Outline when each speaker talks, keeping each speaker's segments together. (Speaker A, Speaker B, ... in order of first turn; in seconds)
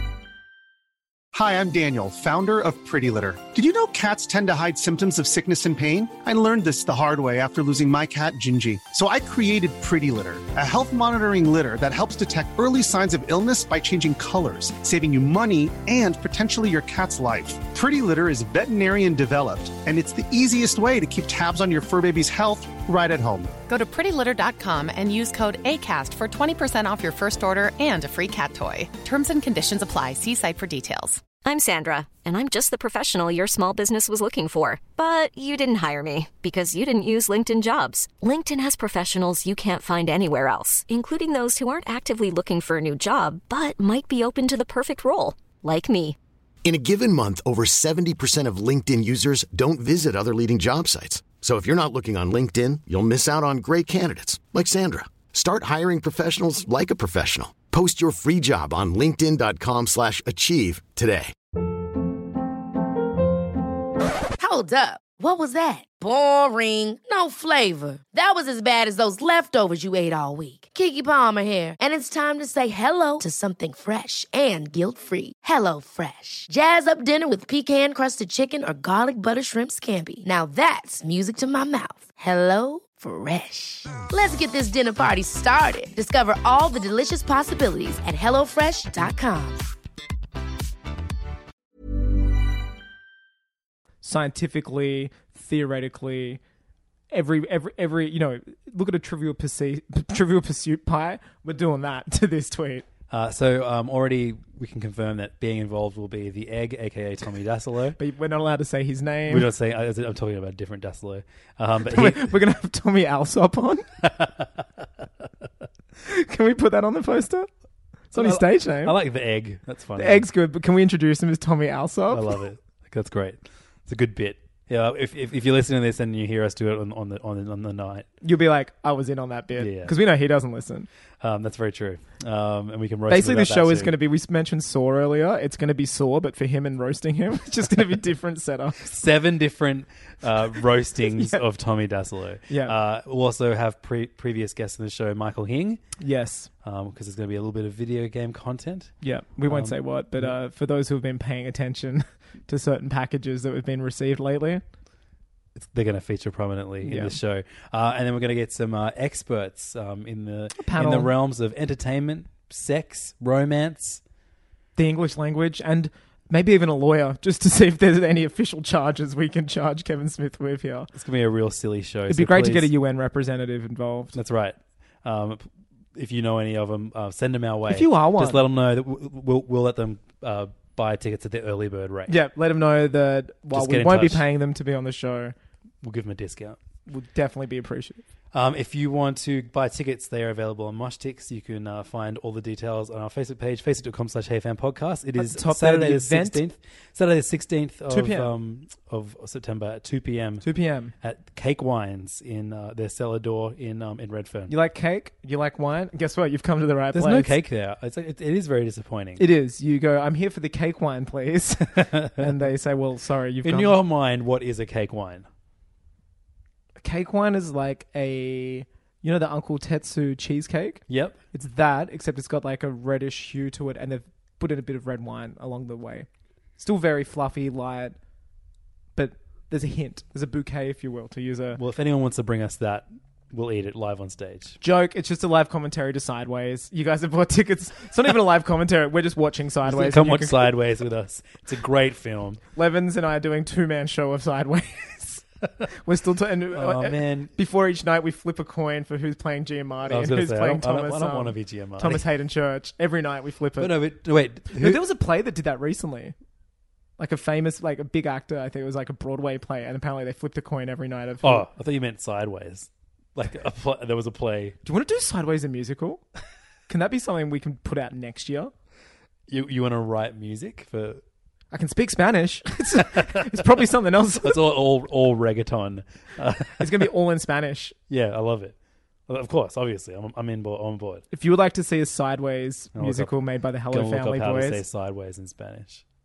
Speaker A: 1.3-23.6
Speaker B: 23.7-31.3
Speaker C: 31.4-46.2
Speaker D: 46.6-61.3
Speaker E: 64.4-89.6
Speaker F: 94.0-96.4, 97.1-102.9, 108.0-109.5, 111.9-113.9, 116.0-117.5, 118.1-119.0, 120.0-122.4, 128.2-130.9, 133.1-138.8, 141.1-141.4, 142.5-142.8, 146.0-146.5, 149.0-154.6, 156.8-157.2, 160.6-161.1, 164.8-170.9, 172.1-174.2, 177.7-178.4, 182.1-185.3, 186.9-188.0, 195.2-196.4, 197.9-198.3, 200.4-200.9, 204.5-207.3, 209.2-213.8, 216.8-226.1, 226.6-228.0, 229.0-231.6, 234.6-240.5, 242.5-253.7, 254.5-256.1, 257.0-261.5, 264.6-266.0, 266.7-268.5, 271.5-274.4, 276.6-277.8, 281.1-284.6
Speaker G: 103.1-108.0, 109.3-112.3, 114.0-114.5, 118.1-120.3, 122.1-128.1, 129.6-129.9, 131.2-133.9, 138.8-145.8, 146.6-148.9, 149.5-150.3, 155.6-164.0, 170.9-172.7, 174.1-182.2, 183.5-184.2, 185.8-186.6, 188.3-200.5, 201.0-204.5, 206.9-209.2, 211.8-212.3, 213.4-215.3, 220.9-221.2, 231.6-234.6, 239.7-242.4, 246.5-247.3, 249.9-252.0, 253.6-254.8, 261.2-264.6, 269.3-271.0, 274.2-276.9, 277.9-278.5, 279.1-281.0, 282.8-283.1, 283.7-285.8